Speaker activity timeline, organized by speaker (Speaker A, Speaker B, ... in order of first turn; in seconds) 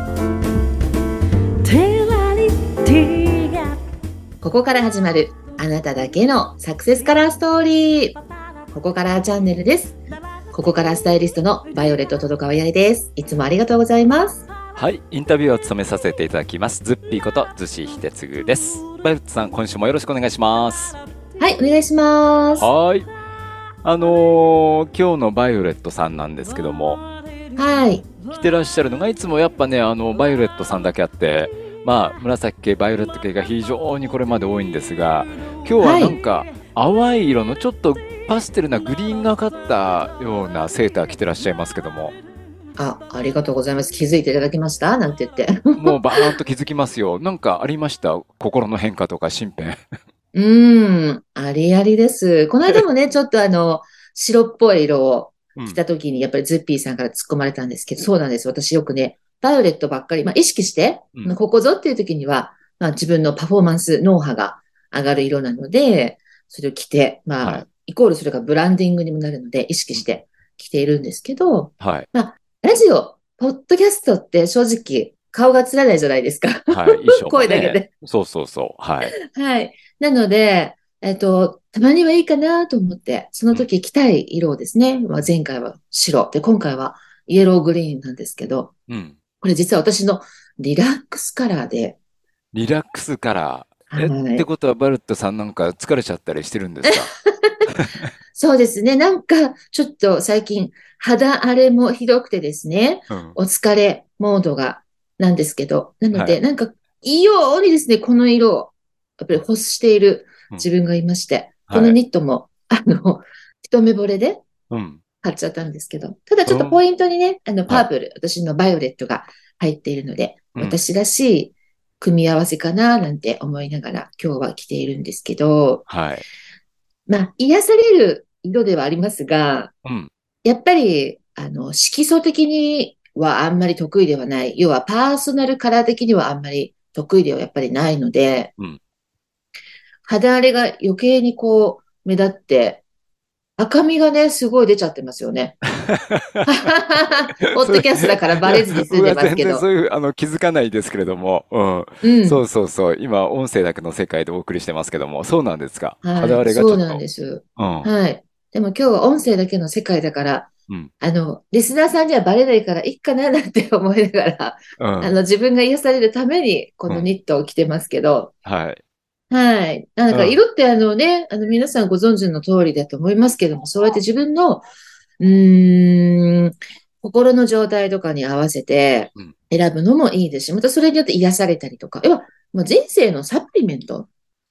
Speaker A: 1.6-3.7
Speaker B: 4.4-8.2, 8.7-10.0, 10.5-14.4, 21.4-22.7, 27.6-28.1, 35.8-36.2, 42.8-46.4, 50.3-77.9, 79.1-88.7, 89.4-92.0, 93.9-94.5, 96.8-97.6, 98.3-114.4, 115.2-125.9, 127.1-129.7, 130.4-138.5, 140.0-142.8, 143.6-145.6, 146.4-149.6, 152.0-152.4, 156.0-160.5, 161.0-168.3, 169.3-174.7, 175.2-184.1
Speaker C: 14.8-21.0, 22.6-23.1, 23.8-27.0, 28.3-42.2, 45.8-49.8, 71.8-72.1, 76.7-79.1, 88.9-89.2, 92.5-97.1, 97.7-98.1, 103.1-103.4, 106.1-106.4, 111.7-112.0, 114.7-115.0, 116.5-116.8, 125.9-126.2, 129.8-130.1, 145.8-146.5, 147.5-157.0, 157.6-157.9, 164.8-165.1, 168.4-168.8, 170.1-170.4